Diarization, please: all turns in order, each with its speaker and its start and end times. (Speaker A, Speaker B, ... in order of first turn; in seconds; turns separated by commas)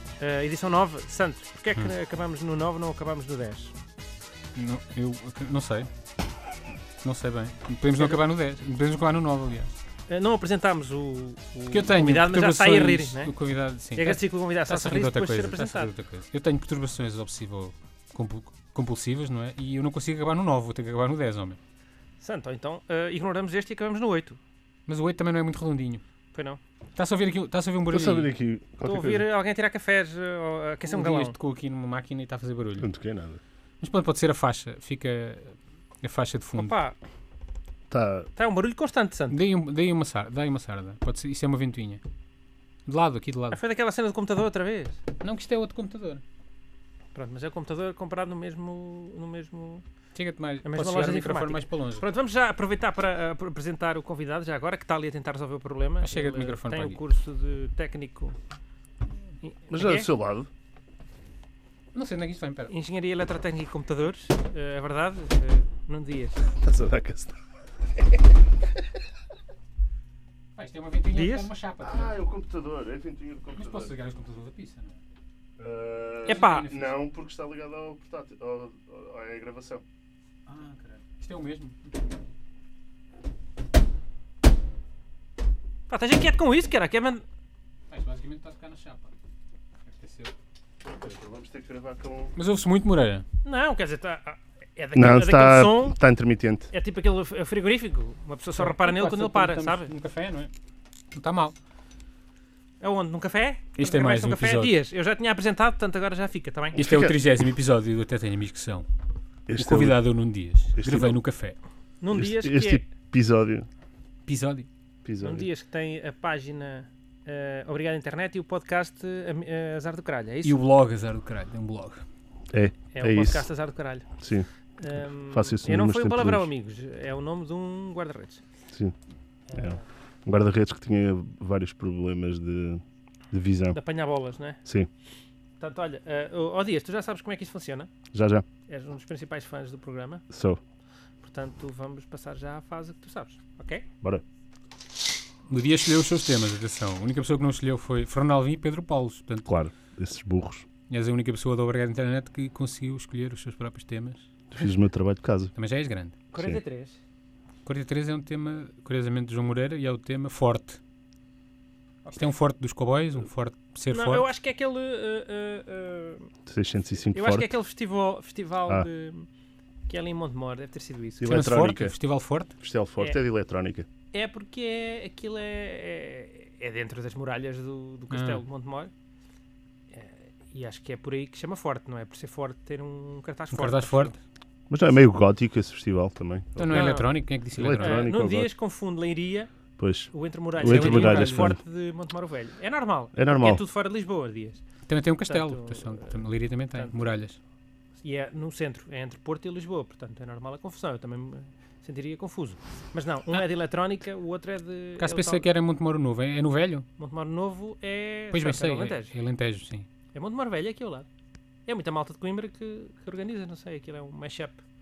Speaker A: 0.2-3.7, Speaker B: 4.5-5.9, Speaker B: 7.0-9.7, Speaker A: 8.0-8.2, Speaker A: 10.1-13.3, Speaker B: 11.7-21.6, Speaker A: 13.9-15.9, Speaker A: 22.2-24.4, Speaker B: 24.9-26.0, Speaker A: 26.3-26.6, Speaker B: 26.9-28.3, Speaker C: 27.9-29.3, Speaker A: 28.8-31.4, Speaker B: 30.9-32.9, Speaker C: 32.8-33.4, Speaker B: 33.8-36.8, Speaker A: 36.6-37.0, Speaker C: 37.9-38.3, Speaker A: 38.4-39.4, Speaker B: 39.3-42.0, Speaker B: 42.9-43.6, Speaker A: 43.5-45.0, Speaker B: 45.2-46.2, Speaker A: 47.1-49.8, Speaker B: 50.1-52.0, Speaker A: 50.6-58.4, Speaker B: 56.0-57.0, Speaker A: 59.4-60.1, Speaker C: 59.7-60.5, Speaker B: 61.9-62.7, Speaker A: 62.7-66.5, Speaker C: 66.6-67.4, Speaker B: 70.6-72.1, Speaker A: 71.1-71.5, Speaker C: 71.8-73.9, Speaker B: 73.5-75.0, Speaker C: 75.6-79.8, Speaker B: 76.2-76.9, Speaker A: 76.3-76.7, Speaker B: 80.5-81.9, Speaker A: 85.9-87.2, Speaker B: 87.9-89.1, Speaker B: 89.8-90.3, Speaker C: 90.8-92.3, Speaker B: 92.3-93.2, Speaker A: 93.4-96.0, Speaker C: 94.9-96.7, Speaker A: 96.7-99.9, Speaker B: 98.6-100.5, Speaker B: 101.1-101.5, Speaker A: 102.8-106.8, Speaker B: 103.8-104.8, Speaker C: 106.8-107.2, Speaker B: 106.8-108.9, Speaker C: 109.5-110.0, Speaker B: 109.6-111.6, Speaker C: 110.8-111.2, Speaker A: 112.0-112.9, Speaker C: 112.1-113.7, Speaker B: 114.2-114.7, Speaker C: 115.0-115.5, Speaker A: 115.2-120.6, Speaker B: 120.4-122.0, Speaker C: 122.5-123.5, Speaker A: 122.9-124.1, Speaker C: 124.2-124.5, Speaker A: 124.8-128.4, Speaker C: 125.3-126.5, Speaker A: 129.5-129.8, Speaker C: 129.6-133.8, Speaker A: 133.7-134.6, Speaker A: 135.6-137.9, Speaker C: 138.1-138.5, Speaker A: 138.7-140.2, Speaker C: 140.3-140.6, Speaker A: 141.2-143.8, Speaker B: 145.5-149.5, Speaker C: 149.5-150.7, Speaker B: 150.9-154.3, Speaker C: 154.5-155.5, Speaker B: 155.6-156.2, Speaker A: 156.3-157.0, Speaker B: 157.7-160.8, Speaker B: 162.1-164.2, Speaker A: 163.9-166.3, Speaker C: 166.5-167.5, Speaker A: 167.1-169.3, Speaker A: 169.9-171.3, Speaker C: 171.2-171.9, Speaker B: 171.2-172.5, Speaker C: 172.6-173.9, Speaker A: 174.1-178.9, Speaker B: 178.1-178.4, Speaker A: 179.9-184.2, Speaker B: 183.5-184.2, Speaker C: 184.7-188.5, Speaker B: 186.6-188.1, Speaker A: 186.7-187.1, Speaker A: 187.8-189.5, Speaker C: 189.8-191.6, Speaker A: 190.1-194.6, Speaker B: 190.6-191.6, Speaker C: 193.2-193.6, Speaker B: 194.9-197.4, Speaker A: 195.3-196.2, Speaker A: 198.0-205.5, Speaker B: 205.0-206.9, Speaker A: 207.0-209.1, Speaker B: 208.3-209.9, Speaker A: 210.1-211.1, Speaker A: 211.7-214.6